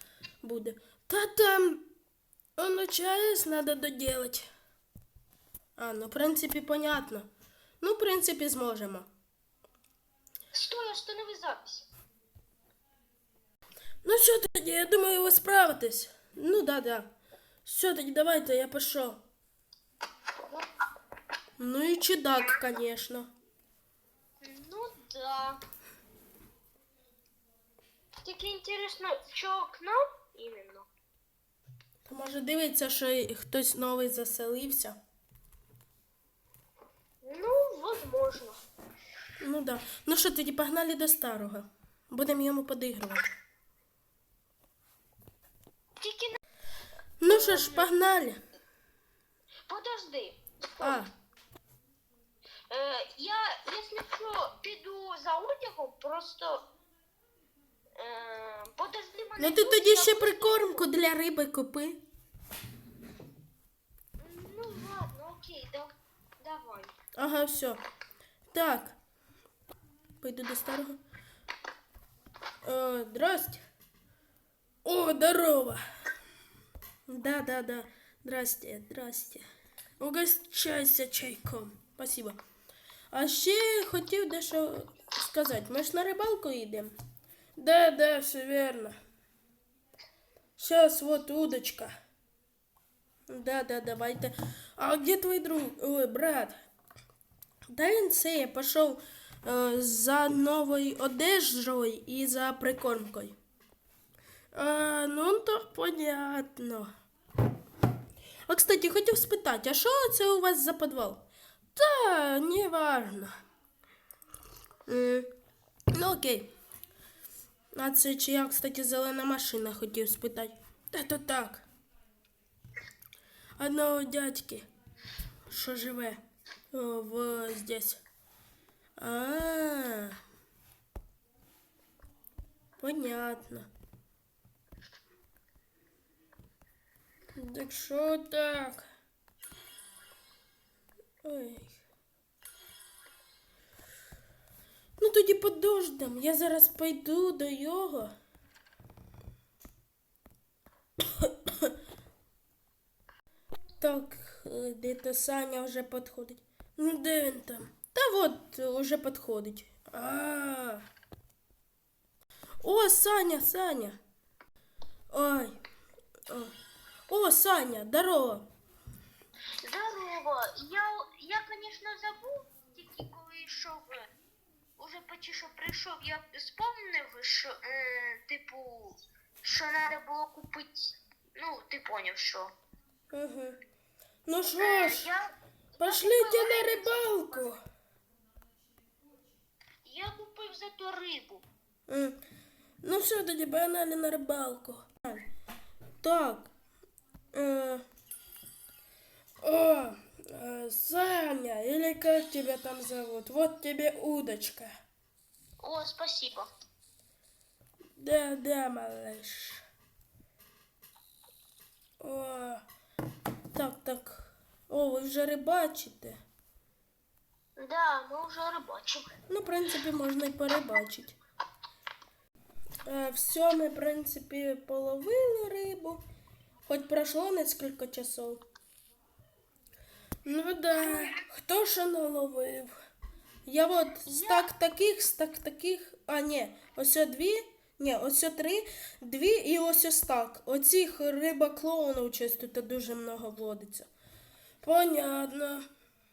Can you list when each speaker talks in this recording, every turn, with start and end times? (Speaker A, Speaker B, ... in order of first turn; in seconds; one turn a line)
Speaker A: 0.4-1.8
Speaker A: 2.6-4.5
Speaker A: 5.8-7.3
Speaker A: 7.8-9.1
Speaker B: 10.5-11.9
Speaker A: 14.0-17.1
Speaker A: 17.6-19.2
Speaker A: 21.6-23.3
Speaker B: 24.4-25.6
Speaker B: 28.2-30.9
Speaker A: 32.1-35.0
Speaker B: 37.2-38.6
Speaker A: 39.4-43.3
Speaker B: 46.0-46.4
Speaker A: 47.2-48.4
Speaker B: 47.3-47.9
Speaker B: 49.7-51.0
Speaker A: 50.8-51.1
Speaker B: 52.7-56.7
Speaker B: 58.0-60.9
Speaker A: 59.4-62.0
Speaker B: 64.2-65.9
Speaker B: 66.4-66.9
Speaker A: 67.2-67.8
Speaker A: 68.5-69.0
Speaker A: 70.2-71.0
Speaker A: 72.6-73.6
Speaker A: 74.8-75.8
Speaker A: 77.1-79.5
Speaker A: 80.0-82.4
Speaker A: 83.1-86.9
Speaker A: 87.6-89.0
Speaker A: 90.6-91.9
Speaker A: 93.3-96.5
Speaker A: 97.7-103.4
Speaker A: 104.5-106.9
Speaker A: 108.5-111.2
Speaker A: 111.8-113.3
Speaker A: 114.9-115.3
Speaker A: 115.9-116.5
Speaker A: 117.8-121.7
Speaker A: 123.6-124.7
Speaker A: 125.5-126.2
Speaker A: 126.7-128.0
Speaker A: 129.0-130.2
Speaker A: 132.8-133.7
Speaker A: 137.4-138.8
Speaker A: 141.2-141.8
Speaker A: 145.0-148.1
Speaker A: 151.1-151.7
Speaker A: 153.8-160.8
Speaker A: 162.6-164.0
Speaker A: 165.1-165.6
Speaker A: 167.1-168.5
Speaker B: 169.6-174.1
Speaker B: 174.8-182.5
Speaker A: 183.1-183.6
Speaker A: 184.3-185.1
Speaker B: 184.6-187.5
Speaker A: 185.8-187.6
Speaker B: 189.8-191.4
Speaker A: 191.9-192.2
Speaker A: 192.8-195.3
Speaker A: 196.0-196.5
Speaker A: 197.3-197.8
Speaker A: 199.4-204.7
Speaker B: 205.6-206.5
Speaker A: 208.0-209.6
Speaker A: 212.0-212.6
Speaker A: 213.5-216.2
Speaker B: 217.6-219.1
Speaker A: 219.3-221.2
Speaker A: 222.9-226.0
Speaker A: 226.7-228.4
Speaker A: 230.2-232.7
Speaker B: 230.8-231.2
Speaker A: 233.5-243.9
Speaker B: 234.1-234.5
Speaker A: 244.6-245.7